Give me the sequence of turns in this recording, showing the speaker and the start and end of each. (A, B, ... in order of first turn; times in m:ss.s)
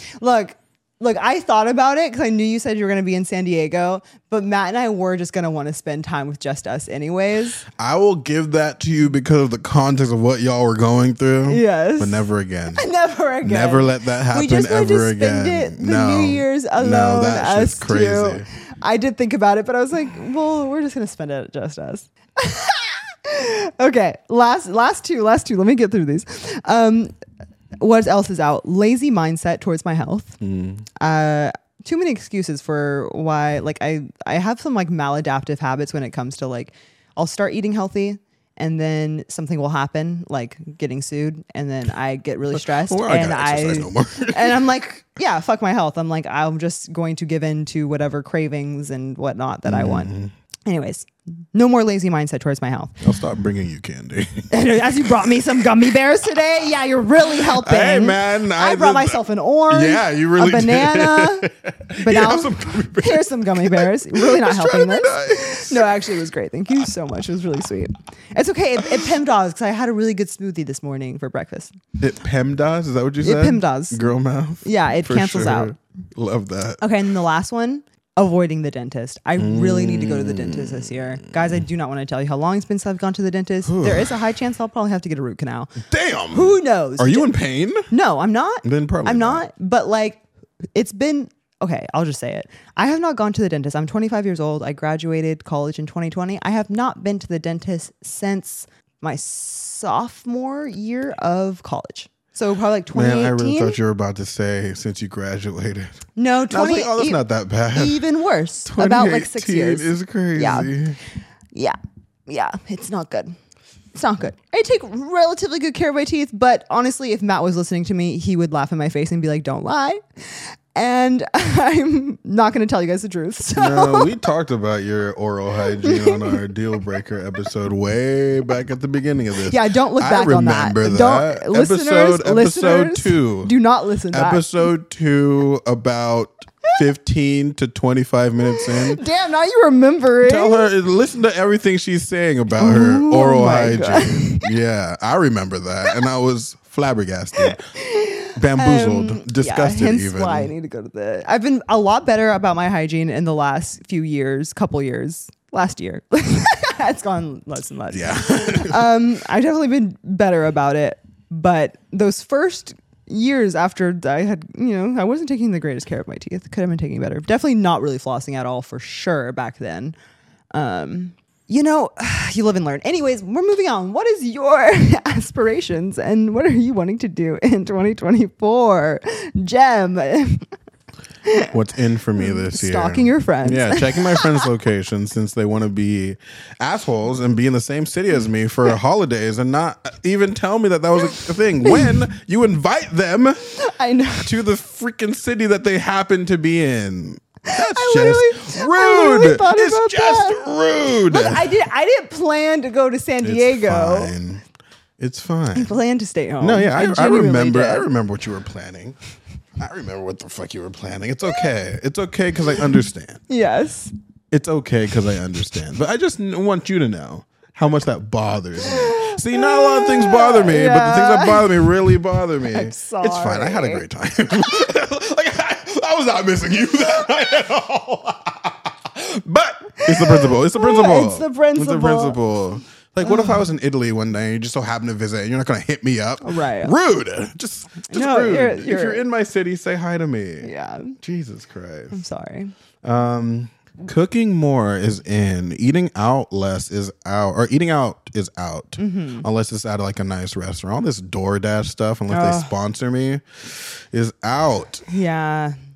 0:00.2-0:07.6 A
0:07.7-0:12.9 B
0:11.5-0:27.1 A
0:13.4-0:18.5 B
0:27.8-0:30.4 A
0:30.4-0:30.9 B
0:31.0-0:50.1 A
0:42.5-0:44.7 B
0:49.7-0:50.3 B
0:50.7-0:53.0 A
0:53.0-0:54.5 B
0:54.5-1:11.8 A
0:55.2-0:55.6 B
0:57.3-1:06.1 B
1:08.8-1:09.1 B
1:12.0-1:16.8 B
1:13.2-1:14.0 A
1:14.6-1:15.7 A
1:16.8-1:25.8 A
1:19.4-1:21.6 B
1:23.7-1:24.2 B
1:25.8-1:27.9 B
1:26.3-1:27.3 A
1:27.9-1:30.2 A
1:28.6-1:29.4 B
1:30.8-1:43.8 A
1:42.9-1:46.0 B
1:46.2-1:47.2 A
1:46.5-1:48.0 B
1:47.7-1:50.8 A
1:48.6-1:51.0 B
1:52.3-1:53.4 A
1:53.9-2:04.2 A
2:03.6-2:13.5 B
2:05.8-2:06.4 A
2:09.4-2:14.5 A
2:14.1-2:19.0 B
2:18.5-2:20.7 A
2:20.2-2:27.6 B
2:22.6-2:24.5 A
2:27.4-2:50.0 A
2:28.4-2:30.5 B
2:37.9-2:38.9 B
2:50.5-3:00.5 A
3:01.2-3:01.5 A
3:01.5-3:13.5 B
3:02.2-3:04.5 A
3:11.6-3:11.9 A
3:13.5-3:14.4 A
3:14.2-3:21.5 B
3:17.5-3:20.5 A
3:21.0-3:24.1 A
3:23.2-3:24.4 B
3:25.0-3:25.7 B
3:25.6-3:27.9 A
3:26.4-3:29.0 B
3:29.6-3:33.2 B
3:33.3-3:33.9 A
3:34.3-4:02.0 B
3:38.6-3:43.8 A
3:49.7-3:52.2 A
3:53.0-3:53.4 A
3:56.2-3:56.8 A
3:57.9-3:59.0 A
4:00.4-4:01.0 A
4:01.9-4:02.5 A
4:02.8-4:14.8 B
4:08.8-4:09.3 A
4:12.1-4:12.5 A
4:14.9-4:15.6 A